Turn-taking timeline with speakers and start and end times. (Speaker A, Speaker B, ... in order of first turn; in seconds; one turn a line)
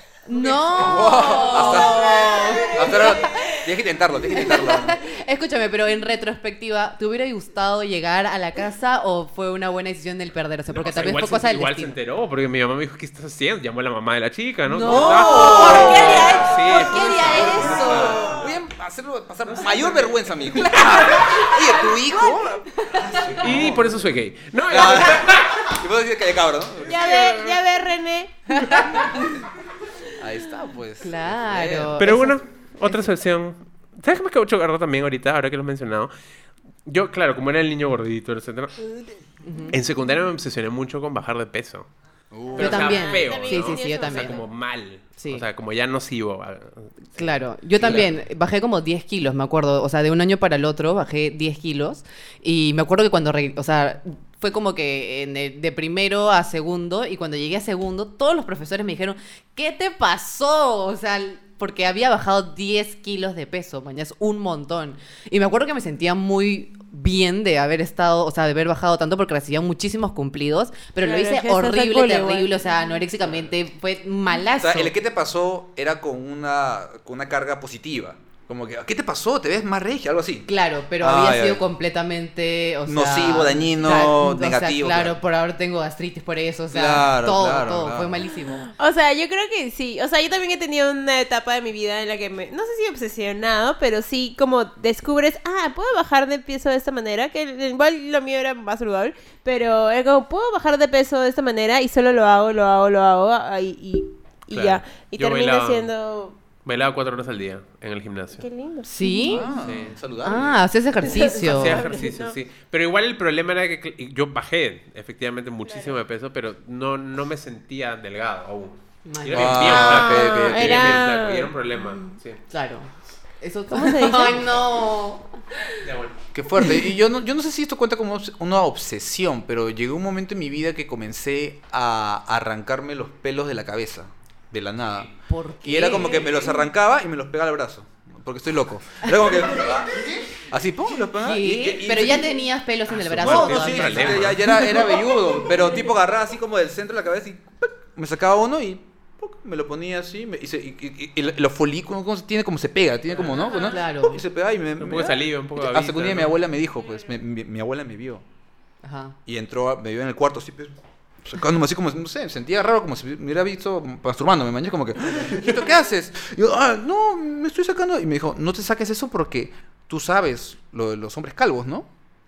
Speaker A: 0.3-3.5
Speaker B: 0.3-3.6
Speaker C: 0.7-5.0
Speaker A: 4.3-11.9
Speaker D: 10.7-18.4
Speaker A: 14.7-18.4
Speaker C: 14.8-24.0
Speaker B: 15.2-18.3
Speaker D: 19.5-20.2
Speaker A: 20.7-22.2
Speaker A: 22.8-23.4
Speaker D: 23.4-25.7
Speaker C: 24.7-27.5
Speaker B: 26.8-29.1
Speaker A: 28.5-29.1
Speaker C: 30.2-32.0
Speaker A: 31.0-33.0
Speaker D: 32.0-36.1
Speaker D: 36.9-38.8
Speaker A: 39.4-39.8
Speaker D: 39.7-41.9
Speaker C: 42.3-43.0
Speaker D: 42.5-47.2
Speaker B: 42.5-44.4
Speaker A: 42.6-44.4
Speaker A: 45.2-45.4
Speaker A: 47.2-74.9
Speaker B: 71.0-72.5
Speaker C: 74.6-80.5
Speaker A: 80.5-88.7
Speaker C: 81.0-81.6
Speaker C: 82.8-85.2
Speaker C: 86.7-88.3
Speaker B: 88.8-106.4
Speaker D: 104.5-105.9
Speaker D: 106.6-108.4
Speaker B: 108.4-109.5
Speaker A: 108.8-109.5
Speaker C: 109.2-110.6
Speaker D: 109.6-110.0
Speaker A: 110.2-111.8
Speaker B: 111.0-112.4
Speaker D: 111.4-122.4
Speaker B: 115.7-116.0
Speaker A: 119.0-119.7
Speaker C: 119.3-121.0
Speaker B: 119.7-121.5
Speaker A: 121.8-125.3
Speaker B: 123.7-124.5
Speaker D: 125.8-126.2
Speaker C: 126.3-135.1
Speaker A: 135.3-136.4
Speaker C: 135.6-142.4
Speaker A: 141.2-144.9
Speaker C: 142.9-158.2
Speaker D: 143.0-144.7
Speaker D: 153.2-153.5
Speaker A: 153.5-154.2
Speaker D: 154.8-156.4
Speaker A: 158.8-159.2
Speaker C: 159.2-171.9